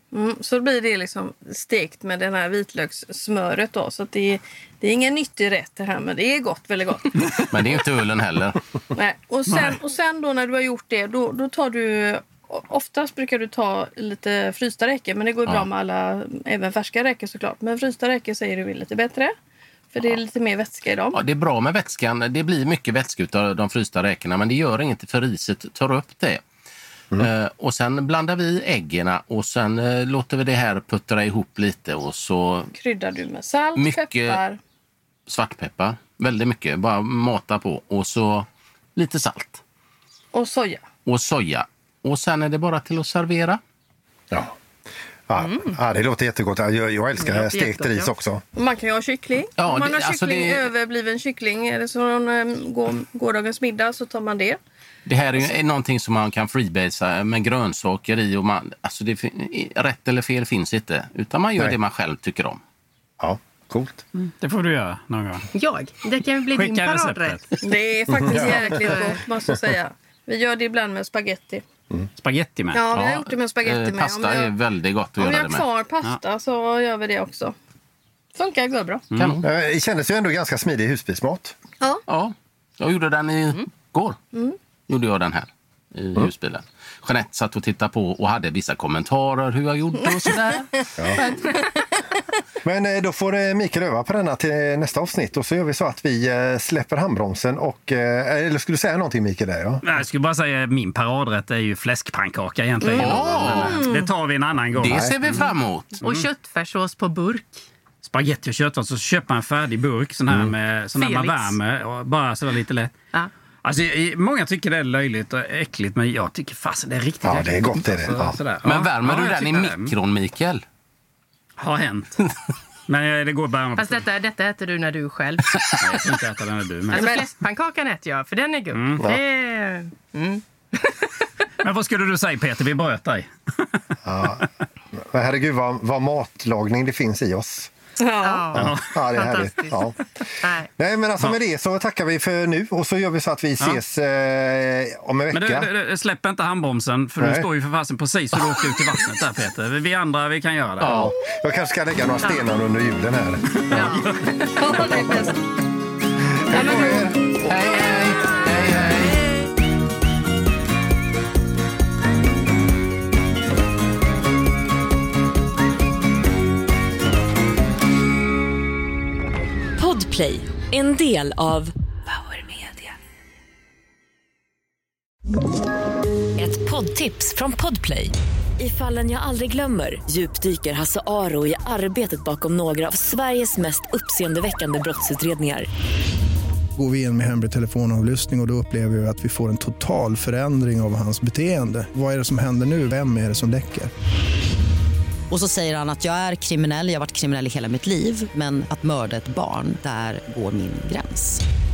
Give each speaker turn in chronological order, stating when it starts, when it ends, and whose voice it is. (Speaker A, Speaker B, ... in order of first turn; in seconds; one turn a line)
Speaker A: 0.1-7.5
Speaker B: 7.5-8.6
Speaker A: 8.9-19.3
Speaker C: 9.5-9.8
Speaker A: 19.9-21.2
Speaker B: 21.1-26.4
Speaker B: 27.2-32.7
Speaker A: 32.8-34.6
Speaker B: 33.8-34.4
Speaker B: 35.3-39.6
Speaker A: 40.3-40.8
Speaker B: 41.1-43.6
Speaker D: 45.3-48.4
Speaker E: 45.4-45.8
Speaker E: 47.2-48.1
Speaker A: 48.6-54.6
Speaker B: 49.6-50.7
Speaker B: 55.1-62.6
Speaker D: 63.2-64.0
Speaker C: 64.2-65.5
Speaker E: 65.5-67.6
Speaker C: 66.5-67.4
Speaker A: 67.6-71.6
Speaker D: 68.2-68.6
Speaker E: 68.2-69.2
Speaker C: 72.2-72.8
Speaker A: 72.7-74.5
Speaker B: 72.9-75.7
Speaker A: 75.2-77.5
Speaker A: 78.3-79.1
Speaker B: 79.2-79.5
Speaker D: 79.4-81.6
Speaker B: 82.1-84.2
Speaker B: 84.9-90.9
Speaker D: 91.0-91.2
Speaker A: 91.2-92.2
Speaker D: 92.6-99.8
Speaker C: 99.8-105.4
Speaker A: 102.8-104.1
Speaker B: 103.0-103.8
Speaker B: 104.8-106.0
Speaker D: 104.8-105.1
Speaker E: 106.0-107.7
Speaker C: 108.0-113.0
Speaker E: 111.0-111.6
Speaker C: 113.6-119.9
Speaker D: 117.2-118.4
Speaker B: 118.6-120.6
Speaker C: 121.6-122.2
Speaker C: 122.9-124.0
Speaker E: 123.8-125.5
Speaker C: 125.8-127.2
Speaker E: 126.9-131.1
Speaker A: 126.9-127.2
Speaker C: 128.7-129.0
Speaker C: 131.6-133.8
Speaker D: 134.1-134.4
Speaker D: 135.0-137.7
Speaker A: 138.0-138.6
Speaker E: 138.2-140.7
Speaker D: 138.5-140.0
Speaker C: 138.6-138.9
Speaker D: 140.8-145.7
Speaker C: 145.3-151.1
Speaker D: 147.2-147.5
Speaker D: 150.8-154.0
Speaker B: 150.8-151.1
Speaker E: 153.7-154.5
Speaker A: 154.6-155.3
Speaker D: 156.5-157.1
Speaker A: 156.5-157.2
Speaker B: 157.4-159.2
Speaker F: 169.8-172.9
Speaker F: 176.4-185.7
Speaker G: 186.8-193.9
Speaker H: 195.3-201.4